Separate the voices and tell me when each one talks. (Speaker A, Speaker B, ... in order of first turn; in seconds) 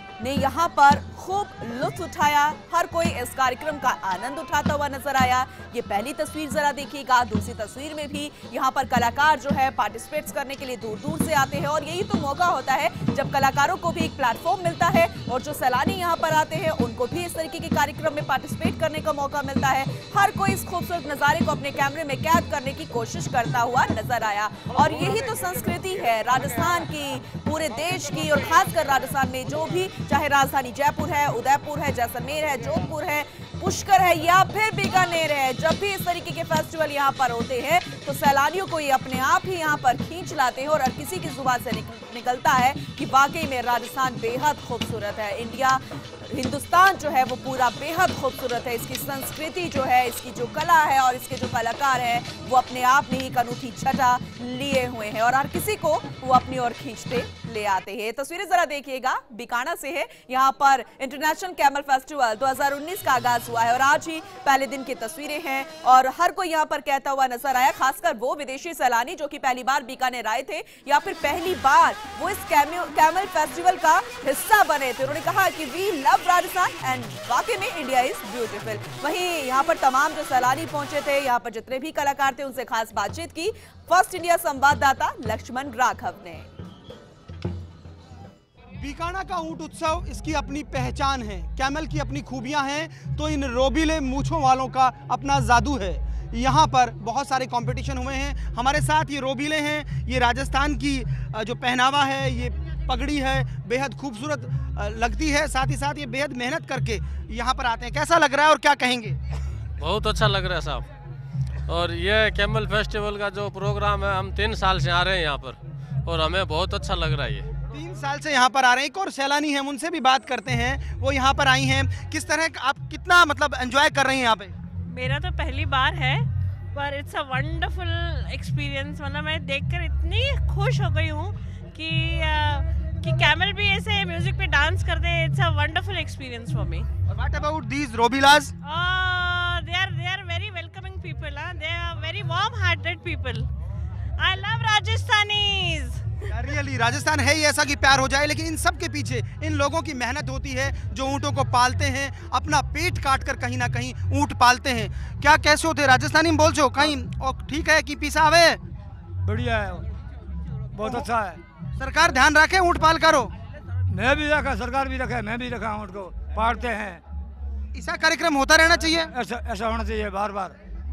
Speaker A: 0.2-86.5
Speaker B: 88.8-109.2, 117.7-124.5, 137.1-138.5, 146.3-158.6, 160.8-161.1, 161.8-163.3, 167.7-169.1
Speaker C: 109.8-110.8, 111.7-117.5
Speaker D: 124.9-136.9, 138.6-143.5, 144.2-146.1
Speaker E: 159.2-159.9, 160.7-161.4, 163.9-167.0, 169.1-170.5